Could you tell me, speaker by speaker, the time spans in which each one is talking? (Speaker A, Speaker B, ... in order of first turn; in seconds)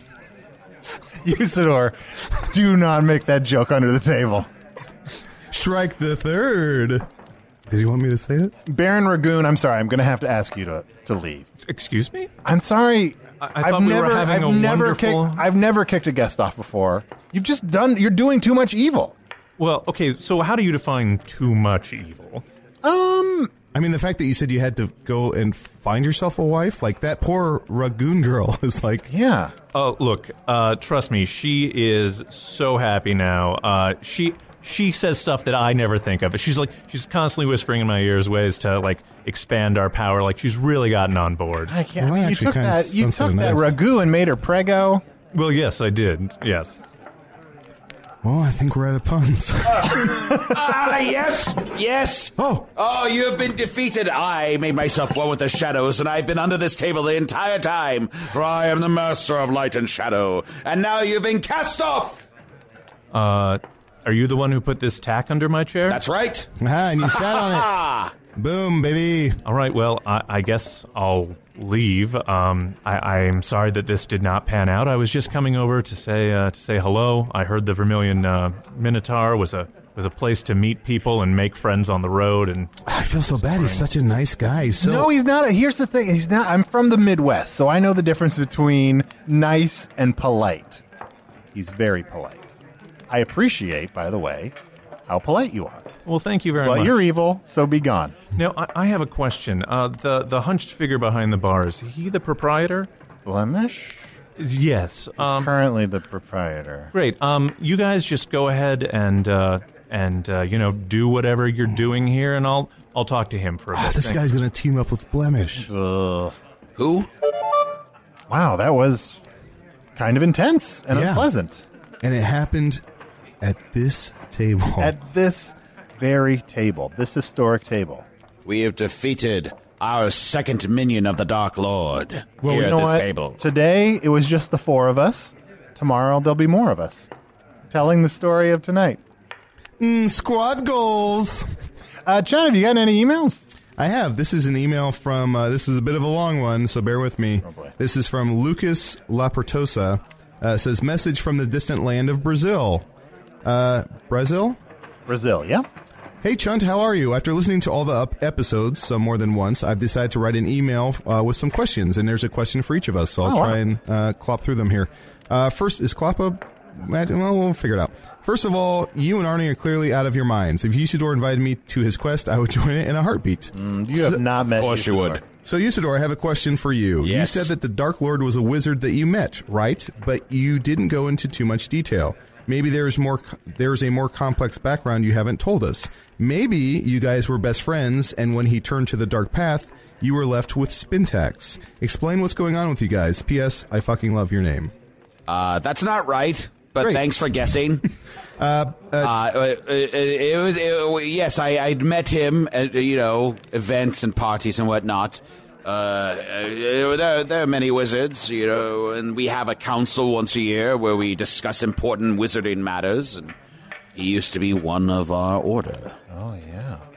Speaker A: 1.2-4.5, 8.7-11.5, 12.4-19.1, 22.8-23.5, 29.1-29.5, 41.7-45.0, 84.8-90.8, 91.5-92.5, 93.1-94.5, 95.1-95.9, 96.6-98.2, 103.3-104.1, 105.2-106.9, 115.6-116.4, 118.3-119.2, 120.0-121.7, 124.8-128.1, 132.5-137.1, 137.7-139.0, 142.1-143.4, 147.4-147.7, 155.1-155.7, 163.2-163.6, 173.6-175.2, 216.1-216.8
Speaker B: 5.5-7.1, 7.7-8.5, 23.7-29.1, 42.0-43.8, 48.2-50.1, 52.4-52.7, 66.6-69.4, 82.9-85.1, 113.8-115.7, 120.9-121.3, 122.0-122.8, 123.4-125.0, 132.4-132.8, 139.8-141.5, 143.8-152.9, 153.4-154.6, 156.2-174.2, 175.4-194.7, 198.4-199.2
Speaker C: 11.6-12.3, 13.4-15.4, 19.6-22.4, 29.7-41.7, 45.3-46.8, 63.1-66.0, 69.5-82.7, 96.1-97.0, 98.3-102.9, 104.4-105.5, 106.9-114.3
Speaker D: 49.7-62.3, 65.9-66.5, 67.0-68.1, 116.8-117.1, 128.5-133.4, 174.6-175.2, 177.0-177.5, 195.3-197.8, 199.0-213.3, 213.9-216.0